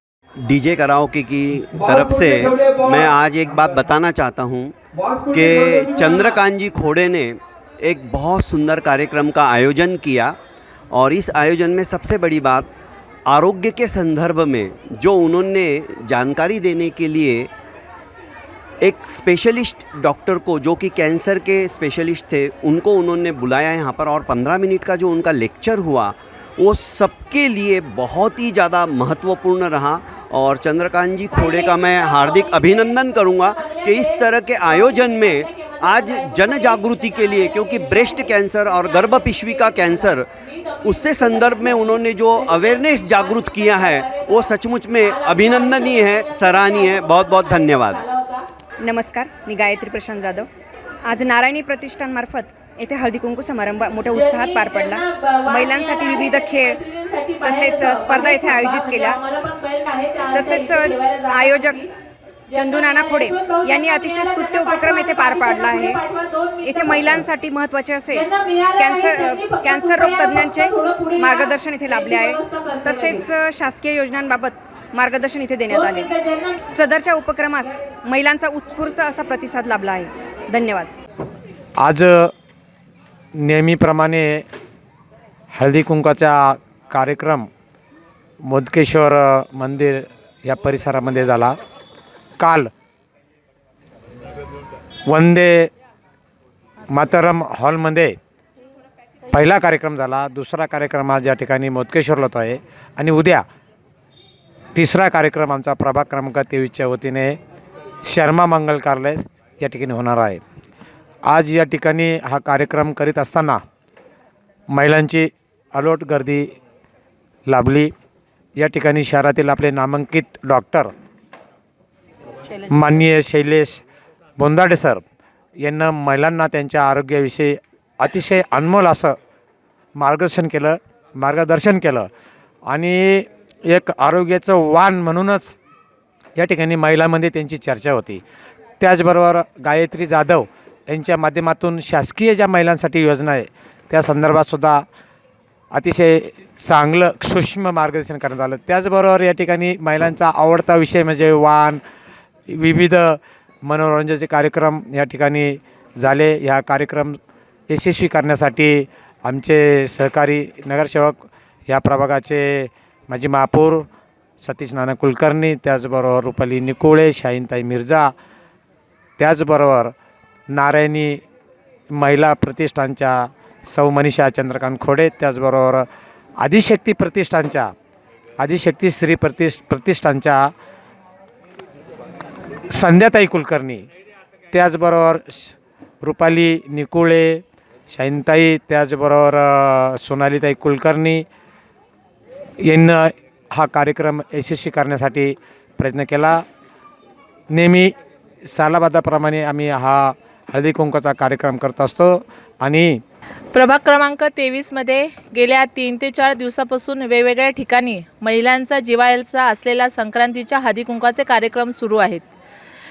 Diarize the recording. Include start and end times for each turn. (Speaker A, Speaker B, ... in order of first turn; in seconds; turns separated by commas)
Speaker A: 0.5-10.4, Speaker A: 10.9-12.7, Speaker A: 13.3-17.5, Speaker A: 18.8-40.3, Speaker B: 31.3-48.5, Speaker A: 40.8-48.0, Speaker C: 48.8-50.5, Speaker C: 51.1-56.8, Speaker B: 54.1-61.9, Speaker C: 57.4-59.2, Speaker C: 60.3-61.8, Speaker B: 62.5-67.2, Speaker C: 62.5-66.0, Speaker C: 66.6-76.1, Speaker B: 68.1-73.3, Speaker B: 75.7-76.7, Speaker C: 76.6-80.9, Speaker D: 81.8-82.3, Speaker D: 83.4-84.5, Speaker D: 85.5-87.5, Speaker D: 88.5-91.5, Speaker D: 92.4-92.7, Speaker D: 95.1-95.7, Speaker D: 96.9-98.2, Speaker D: 99.3-103.4, Speaker D: 104.8-107.4, Speaker D: 108.0-110.4, Speaker D: 111.3-113.6, Speaker D: 114.7-116.5, Speaker D: 117.5-117.9, Speaker D: 118.6-120.9, Speaker D: 122.7-123.8, Speaker D: 124.4-125.0, Speaker D: 125.6-129.2, Speaker D: 130.0-132.1, Speaker D: 132.7-135.6, Speaker D: 136.4-138.2, Speaker D: 138.8-144.8, Speaker D: 145.7-151.8, Speaker D: 152.5-157.2, Speaker D: 157.7-163.9, Speaker D: 164.4-168.1, Speaker D: 169.2-169.9, Speaker D: 170.5-171.2, Speaker D: 171.9-175.8, Speaker D: 176.4-177.7, Speaker D: 178.4-180.5, Speaker D: 182.7-183.9, Speaker D: 184.5-191.2, Speaker D: 192.6-196.4, Speaker D: 197.5-197.9, Speaker D: 198.4-203.0, Speaker B: 203.5-212.3